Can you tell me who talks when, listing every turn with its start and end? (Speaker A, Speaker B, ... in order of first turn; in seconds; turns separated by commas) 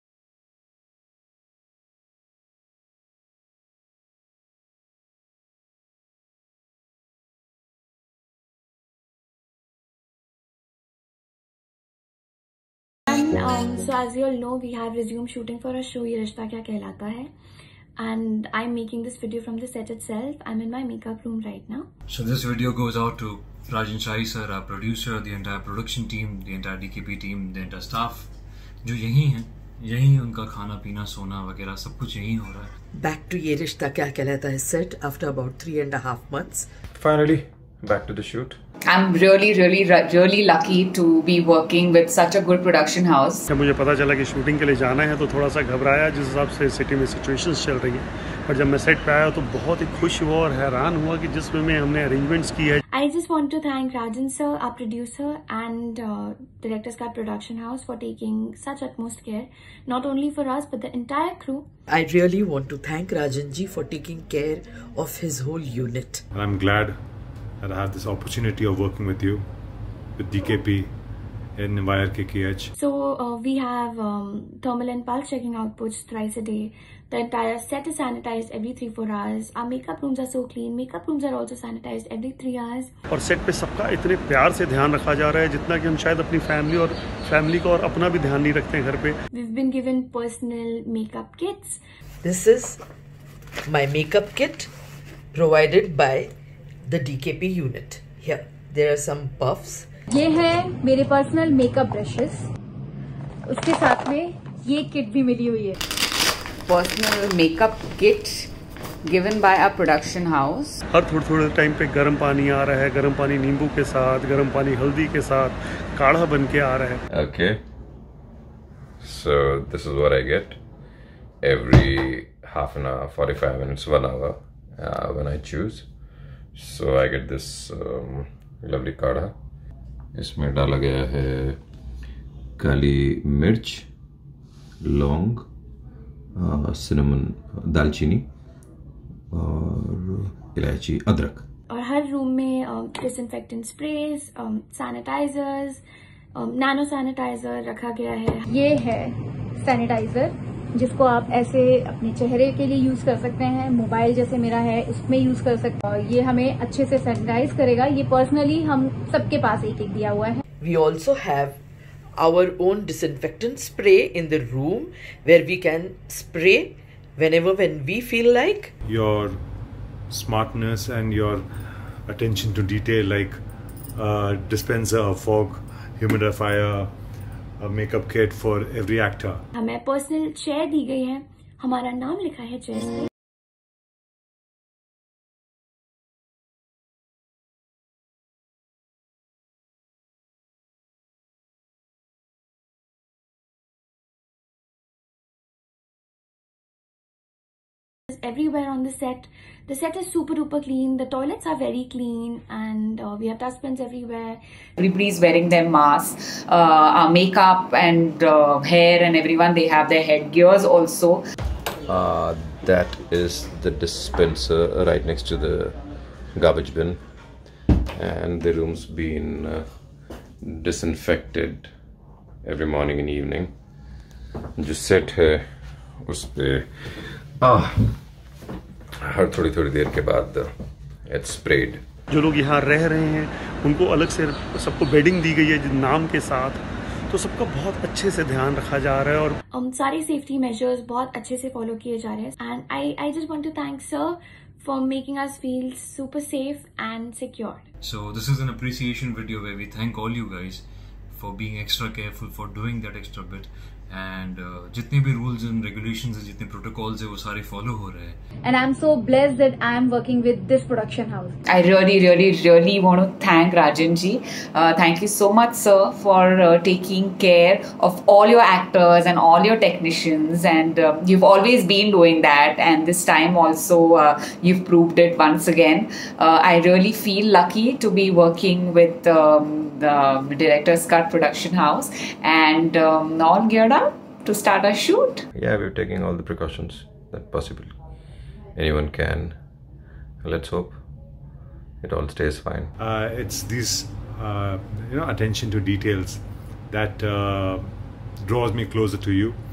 Speaker A: 13.1-17.3, Speaker A: 18.0-21.9, Speaker B: 22.1-28.3, Speaker B: 28.8-32.7, Speaker C: 32.9-36.7, Speaker D: 36.9-38.6, Speaker E: 38.8-43.5, Speaker F: 43.5-52.8, Speaker A: 52.9-61.6, Speaker C: 61.9-66.2, Speaker G: 66.3-66.9, Speaker G: 67.6-69.4, Speaker G: 70.2-70.9, Speaker G: 71.6-72.7, Speaker A: 72.8-82.9, Speaker F: 83.1-89.2, Speaker A: 89.3-91.8, Speaker C: 92.2-92.8, Speaker C: 93.7-94.7, Speaker C: 95.3-96.3, Speaker C: 96.8-99.9, Speaker H: 100.1-102.5, Speaker H: 103.5-105.8, Speaker E: 106.7-108.5, Speaker E: 109.0-110.8, Speaker F: 110.9-117.0, Speaker D: 117.1-117.6, Speaker D: 119.0-120.6, Speaker D: 121.4-125.8, Speaker D: 126.5-129.3, Speaker D: 130.1-131.6, Speaker D: 132.6-133.9, Speaker D: 134.8-135.4, Speaker D: 136.3-138.2, Speaker D: 139.3-141.4, Speaker A: 141.7-145.8, Speaker A: 146.3-148.4, Speaker H: 148.5-160.4, Speaker C: 160.6-161.6, Speaker C: 162.2-168.7, Speaker G: 168.9-169.4, Speaker G: 170.1-171.4, Speaker G: 172.1-173.4, Speaker G: 173.9-176.9, Speaker G: 177.6-179.4, Speaker A: 179.6-183.1, Speaker A: 198.1-204.4, Speaker E: 204.8-211.2, Speaker D: 211.9-215.8, Speaker D: 216.3-217.0, Speaker D: 217.9-219.7, Speaker D: 220.4-221.7, Speaker D: 222.4-223.5, Speaker D: 224.6-225.4, Speaker D: 226.0-226.9, Speaker D: 227.4-228.0, Speaker D: 229.0-230.5, Speaker D: 231.1-231.8, Speaker F: 232.1-239.3, Speaker A: 239.5-247.6, Speaker B: 247.8-258.2, Speaker H: 258.4-261.3, Speaker E: 261.5-285.2, Speaker D: 285.3-287.7, Speaker D: 288.5-289.4, Speaker D: 290.2-290.8, Speaker D: 291.8-292.7, Speaker G: 292.8-297.7, Speaker G: 298.2-299.4